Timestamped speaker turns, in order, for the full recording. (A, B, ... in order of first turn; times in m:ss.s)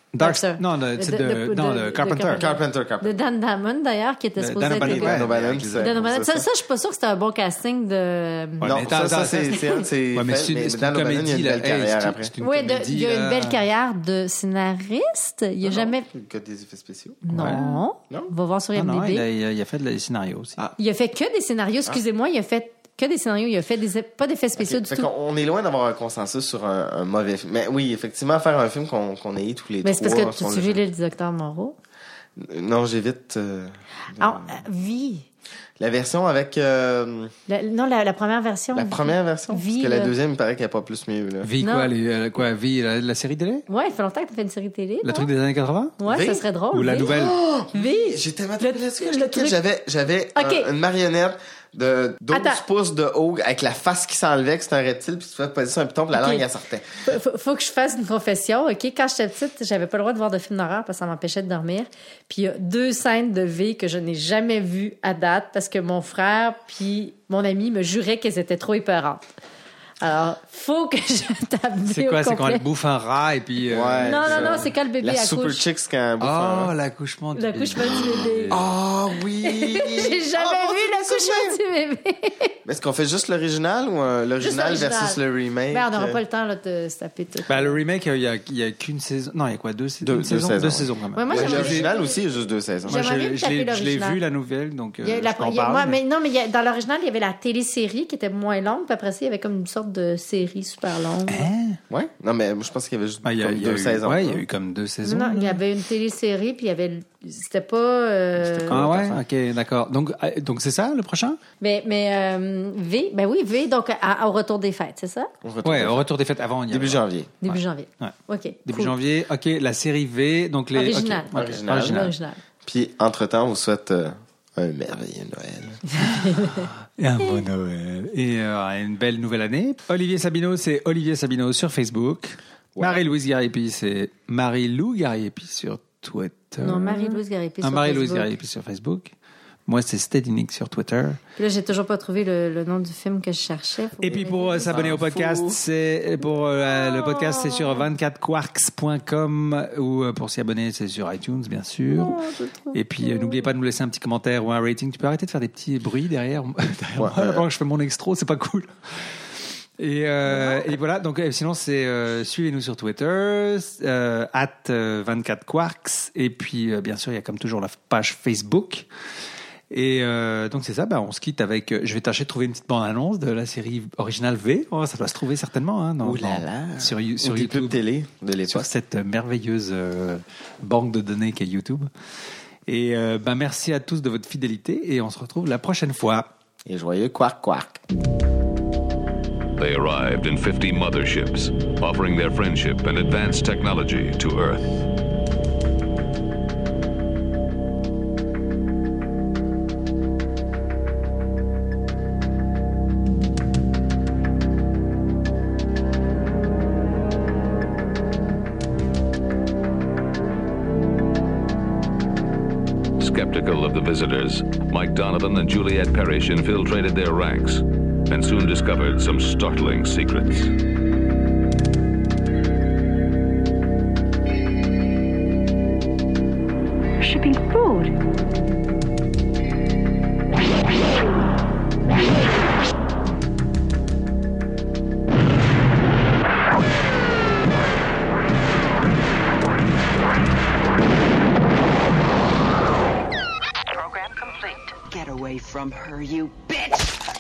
0:00.1-0:02.5 A
0:00.2-0:05.2 B
0:02.4-0:03.2 C
0:04.4-0:05.9 A
0:04.7-0:06.5 C
0:05.8-0:08.7 B
0:08.6-0:13.6 A
0:08.6-0:12.3 C
0:12.4-0:16.0 B
0:15.6-0:18.3 C
0:17.2-0:19.2 B
0:17.3-0:17.6 A
0:18.7-0:20.6 A
0:20.8-0:25.1 B
0:24.6-0:30.8 C
0:29.8-0:31.8 B
0:32.4-0:34.6 C
0:34.2-0:35.2 B
0:35.8-0:37.3 C
0:37.5-0:40.1 B
0:38.7-0:41.5 C
0:41.4-0:43.6 A
0:41.6-0:41.9 B
0:43.7-0:45.3 B
0:45.0-0:46.1 A
0:46.0-0:47.1 B
0:46.1-0:46.4 C
0:46.7-0:47.3 A
0:47.0-0:56.8 C
0:47.7-0:49.6 B
0:50.4-0:50.7 B
0:52.3-0:52.6 B
0:56.1-0:56.4 B
0:57.0-1:09.3 B
1:10.0-1:12.6 B
1:11.9-1:14.6 A
1:13.7-1:16.7 C
1:14.0-1:15.6 B
1:16.2-1:18.6 A
1:17.4-1:18.6 B
1:18.5-1:21.6 C
1:19.4-1:22.5 B
1:22.6-1:26.2 C
1:24.4-1:25.2 B
1:25.7-1:27.8 B
1:27.5-1:31.9 A
1:30.0-1:33.1 C
1:31.1-1:32.1 B
1:32.9-1:34.2 B
1:32.9-1:36.0 A
1:35.0-1:41.4 B
1:41.3-1:41.8 A
1:41.9-1:44.4 C
1:43.2-1:45.6 A
1:45.0-1:48.8 B
1:48.4-1:49.2 C
1:48.7-1:51.4 A
1:51.6-1:55.3 B
1:55.4-1:56.1 C
1:55.6-1:58.1 A
1:56.7-1:57.3 C
1:57.4-1:58.9 B
1:58.7-2:02.1 A
2:00.7-2:02.4 B
2:01.3-2:02.1 C
2:02.6-2:05.8 C
2:05.9-2:06.7 B
2:07.0-2:19.1 A
2:12.8-2:13.0 C
2:16.6-2:18.3 B
2:19.7-2:21.2 A
2:21.4-2:24.8 B
2:24.0-2:32.2 A
2:24.7-2:25.6 C
2:27.1-2:27.7 B
2:31.9-2:32.7 C
2:32.7-2:33.3 B
2:32.7-2:38.7 A
2:37.0-2:37.4 C
2:39.8-2:48.8 A
2:49.7-2:57.8 A
2:56.0-2:58.7 C
2:58.5-3:01.9 A
3:02.7-3:06.3 A
3:06.7-3:07.8 C
3:09.6-3:14.6 D
3:33.0-3:40.5 D
3:47.1-3:47.8 B
3:47.2-3:47.6 E
4:03.7-4:07.0 E